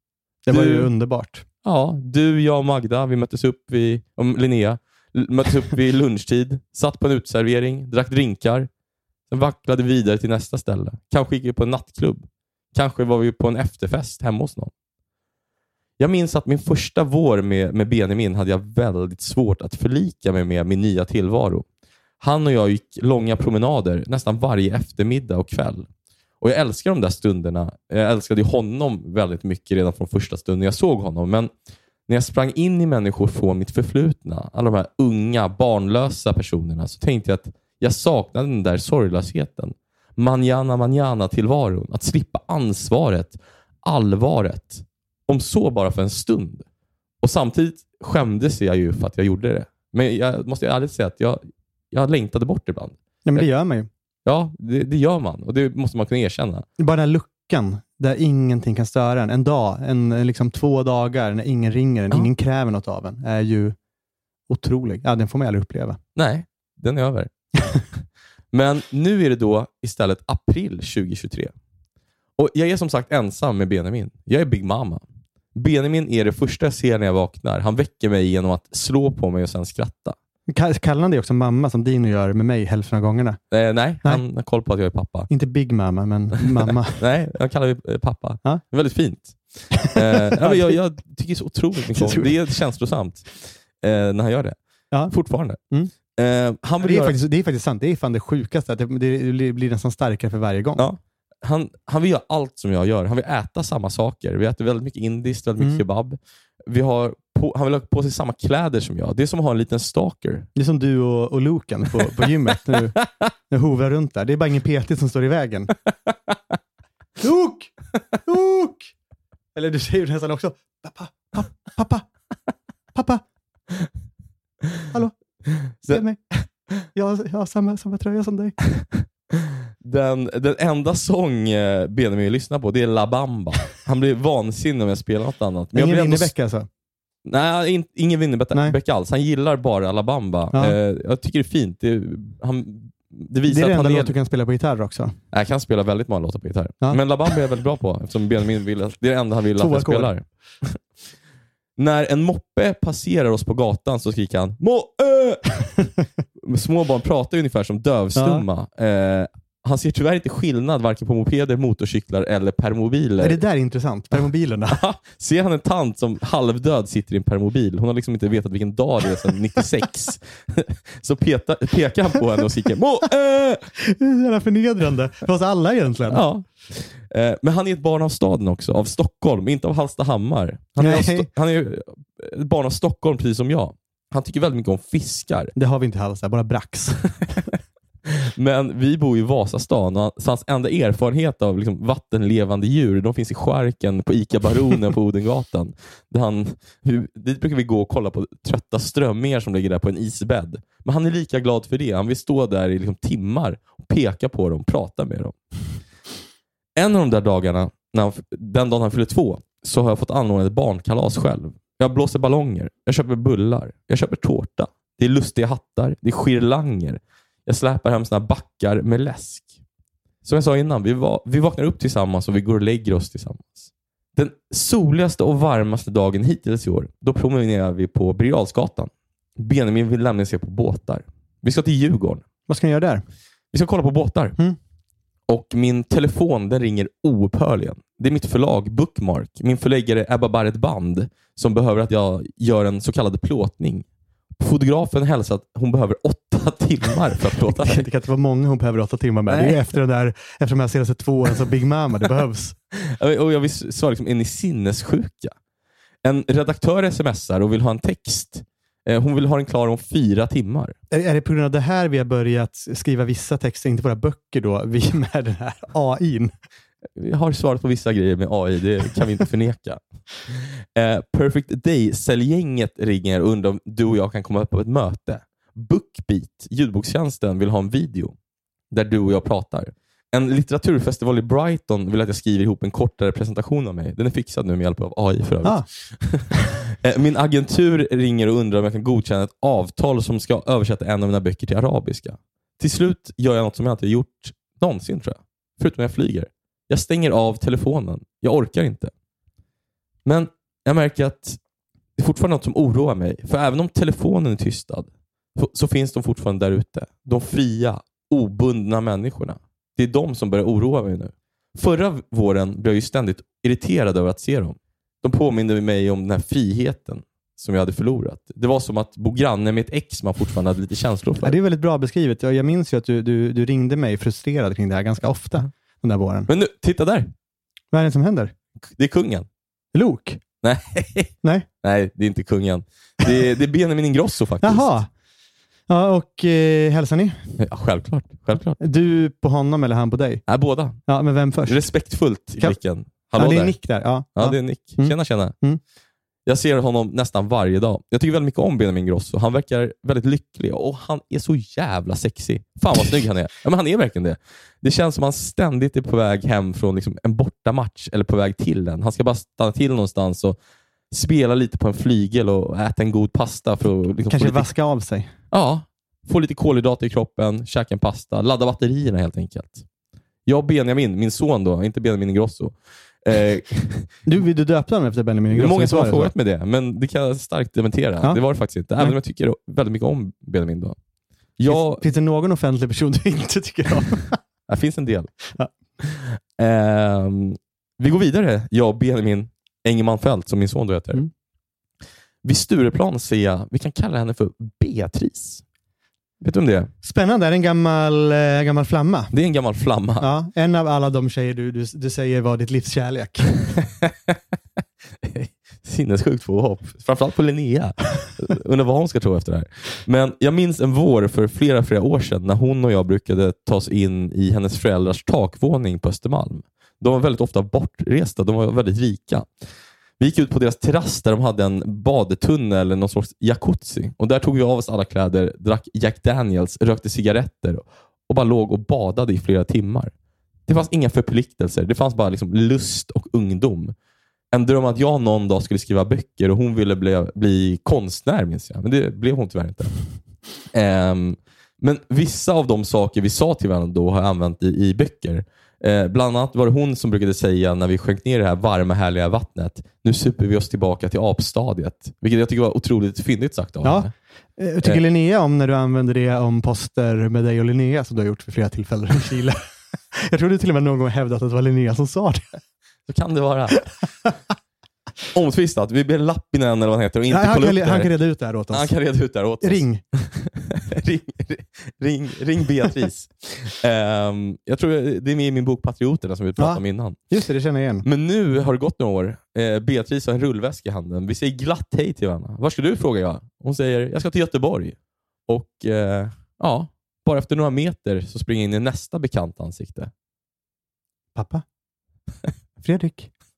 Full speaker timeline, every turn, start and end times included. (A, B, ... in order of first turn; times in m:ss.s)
0:00.5-0:01.4 A
0:00.5-0:00.9 B
0:01.6-0:08.7 B
0:09.3-0:14.7 B
0:16.0-0:21.6 B
0:22.2-0:25.9 B
0:26.4-0:31.5 B
0:32.1-0:46.6 B
0:47.2-0:53.5 B
0:53.3-0:53.9 A
0:54.2-0:56.7 B
0:56.8-1:03.8 A
1:04.5-1:06.0 A
1:06.2-1:07.3 B
1:08.5-1:11.5 B
1:12.4-1:15.0 B
1:15.6-1:20.2 B
1:20.5-1:23.4 A
1:23.5-1:25.3 B
1:25.3-1:27.0 A
1:26.6-1:34.6 B
1:29.8-1:30.8 A
1:31.9-1:32.3 A
1:35.1-1:35.6 B
1:36.1-1:37.2 B
1:36.8-1:40.9 A
1:40.8-1:50.5 B
1:50.6-1:53.0 A
1:52.8-1:53.1 B
1:53.5-1:55.8 A
1:57.2-1:58.9 A
1:59.6-2:02.1 A
2:02.9-2:03.2 A
2:04.9-2:06.3 A
2:05.7-2:06.0 B
2:06.9-2:08.6 A
2:09.8-2:16.3 B
2:15.7-2:16.7 A
2:17.3-2:24.2 B
2:23.5-2:25.2 A
2:25.3-2:30.8 B
2:29.6-2:30.1 A
2:31.8-2:35.5 B
2:36.4-2:43.4 B
2:38.2-2:38.4 A
2:43.2-2:44.8 A
2:44.7-2:53.7 B
2:53.8-2:56.2 A
2:56.1-3:05.5 B
3:00.8-3:01.3 A
3:05.6-3:07.1 A
3:08.2-3:25.4 B
3:26.8-3:39.5 B
3:40.2-3:52.2 B
3:52.5-3:53.0 A
3:53.5-3:54.4 B
3:55.3-4:03.9 B
4:04.4-4:07.9 B
4:07.4-4:12.6 A
4:09.3-4:09.6 B
4:12.8-4:15.3 B
4:16.0-4:20.8 B
4:20.9-4:26.3 A
4:27.0-4:38.1 B
4:38.7-4:58.9 B
5:00.0-5:01.4 B
5:02.0-5:21.4 B
5:21.2-5:26.3 A
5:26.3-5:27.1 B
5:27.7-5:28.3 A
5:28.8-5:29.3 B
5:29.7-5:30.2 A
5:30.4-5:34.8 B
5:34.4-5:34.9 A
5:35.7-5:37.3 A
5:37.4-5:38.6 B
5:38.6-5:40.2 A
5:40.3-5:40.8 B
5:40.9-5:41.7 A
5:41.5-5:43.6 B
5:43.2-5:45.6 A
5:44.1-5:45.4 B
5:46.3-6:00.4 B
6:00.9-6:04.5 B
6:04.1-6:05.1 A
6:05.3-6:09.7 B
6:10.3-6:13.9 B
6:14.1-6:16.1 A
6:15.3-6:20.8 B
6:21.4-6:21.8 B
6:21.4-6:24.2 A
6:24.5-6:25.1 B
6:25.8-6:31.0 B
6:32.2-6:35.4 B
6:36.2-6:36.7 B
6:36.8-6:39.1 A
6:39.1-6:40.1 B
6:40.0-6:43.4 A
6:43.8-6:44.2 B
6:45.0-6:59.3 B
7:00.0-7:09.9 B
7:10.5-7:13.7 B
7:14.3-7:19.8 B
7:20.5-7:33.9 B
7:33.6-7:42.4 A
7:42.9-7:43.7 B
7:45.1-7:47.9 B
7:47.1-7:48.7 A
7:48.5-7:57.0 B
7:49.4-7:49.8 A
7:56.4-7:57.8 A
7:57.8-8:04.8 B
8:05.3-8:09.9 B
8:11.2-8:11.4 A
8:12.6-8:13.1 A